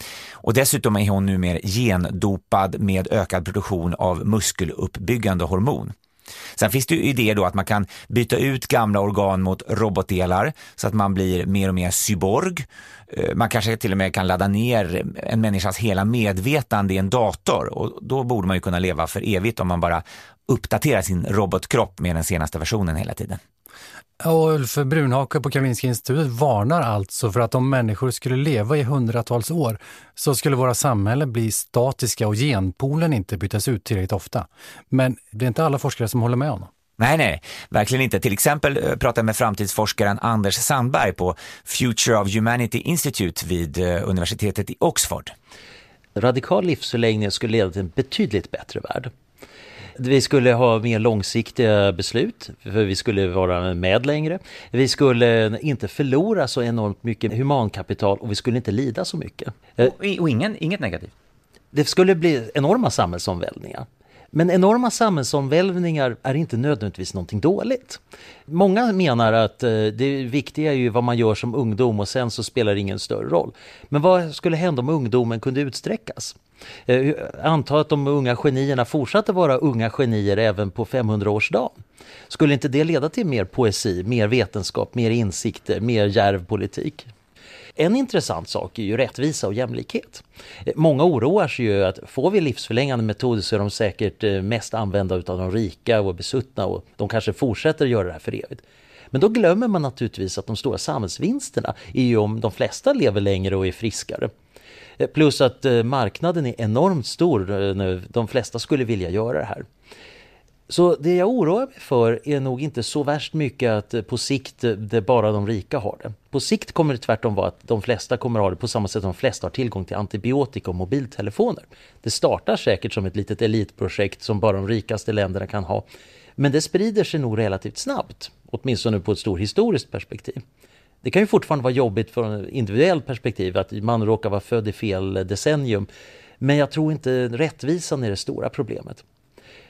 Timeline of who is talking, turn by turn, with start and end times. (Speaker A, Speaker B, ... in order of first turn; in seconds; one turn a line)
Speaker A: 0.4-5.9
Speaker A: 6.5-23.4
Speaker B: 24.2-36.7
Speaker A: 37.0-45.3
Speaker C: 46.2-49.1
Speaker C: 50.0-59.9
Speaker A: 59.8-61.1
Speaker C: 61.7-81.8
Speaker C: 82.3-87.1
Speaker C: 87.8-104.3
Speaker C: 105.0-109.7
Speaker C: 110.7-125.9
Speaker C: 126.4-130.4
Speaker C: 131.0-135.9
Speaker C: 136.4-139.0